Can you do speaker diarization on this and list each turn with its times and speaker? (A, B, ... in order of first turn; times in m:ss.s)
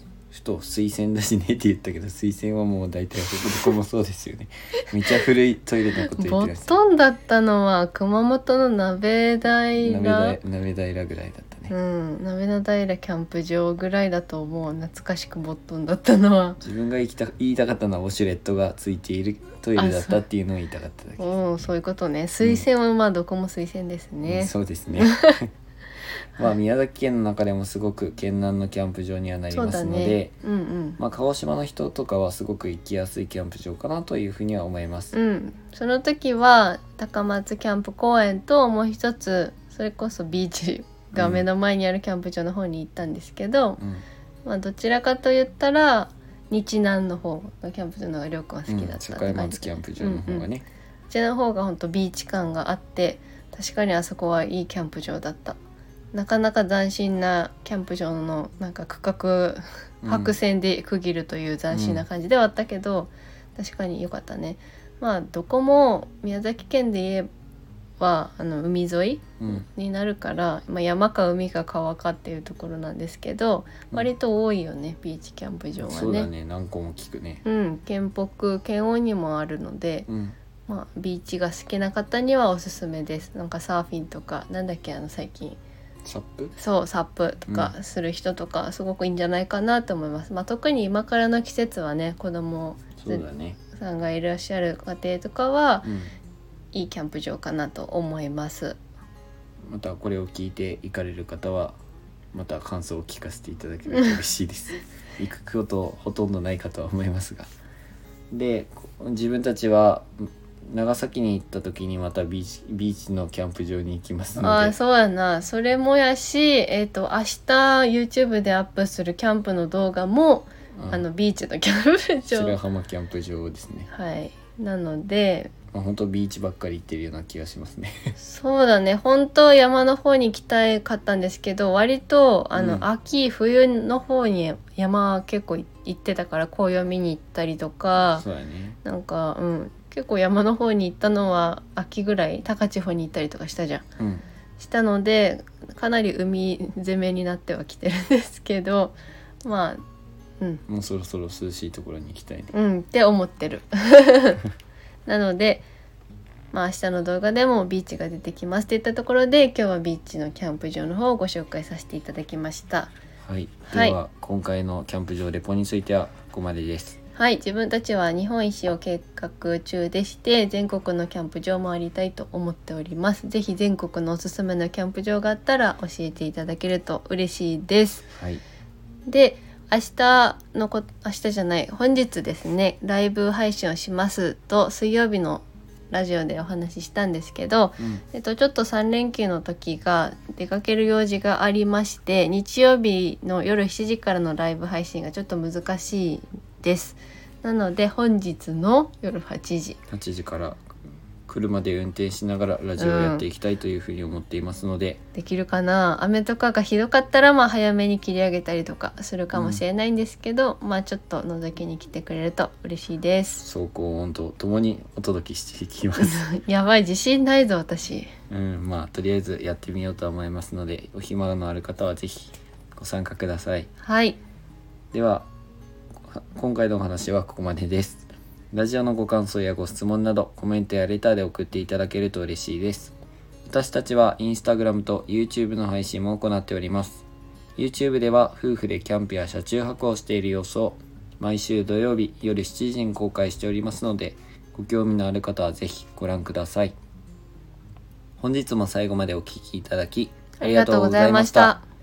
0:00.3-0:06.8 A
0:06.0-0:10.4 B
0:09.8-0:11.7 A
0:11.7-0:16.6 B
0:16.6-0:21.3 A
0:19.8-0:20.2 B
0:21.2-0:25.4 B
0:24.3-0:25.5 A
0:26.4-0:30.3 A
0:29.5-0:31.0 B
0:31.0-0:35.2 A
0:35.1-0:43.8 B
0:41.2-0:41.4 A
0:43.8-0:44.0 A
0:44.4-0:50.5 B
0:48.7-0:50.6 A
0:51.1-0:55.6 B
0:56.1-1:07.3 B
1:00.0-1:00.3 A
1:01.7-1:02.0 A
1:08.0-1:16.3 B
1:15.8-1:17.4 A
1:17.4-1:20.1 B
1:20.1-1:20.4 A
1:20.7-1:25.6 B
1:26.0-1:26.6 A
1:26.6-1:35.9 B
1:27.5-1:27.7 A
1:33.0-1:33.6 A
1:35.8-1:36.1 A
1:36.7-1:38.8 B
1:39.6-1:41.8 A
1:42.3-1:47.5 A
1:48.3-1:54.8 A
1:54.4-2:02.6 B
2:00.8-2:01.1 A
2:02.3-2:03.9 A
2:03.9-2:05.5 B
2:05.7-2:08.1 A
2:08.2-2:18.2 B
2:12.6-2:12.9 A
2:18.1-2:18.8 A
2:18.8-2:23.8 B
2:24.0-2:24.2 A
2:24.6-2:29.8 B
2:30.7-2:32.5 A
2:32.5-2:34.4 B
2:35.1-2:35.7 B
2:36.5-2:42.9 B
2:43.2-2:47.0 A
2:43.7-2:44.0 B
2:47.2-2:58.1 B
2:58.2-2:58.4 A
2:59.1-3:19.8 B
3:19.9-3:20.6 A
3:21.3-3:25.0 A
3:22.8-3:23.2 B
3:25.1-3:33.4 B
3:29.3-3:29.6 A
3:33.4-3:36.3 A
3:36.0-3:38.1 B
3:38.3-3:43.7 A
3:43.8-3:44.2 B
3:44.9-3:45.3 A
3:46.0-3:52.9 A
3:53.5-3:57.0 A
3:57.6-4:06.7 A
4:08.2-4:11.6 A
4:10.4-4:11.6 B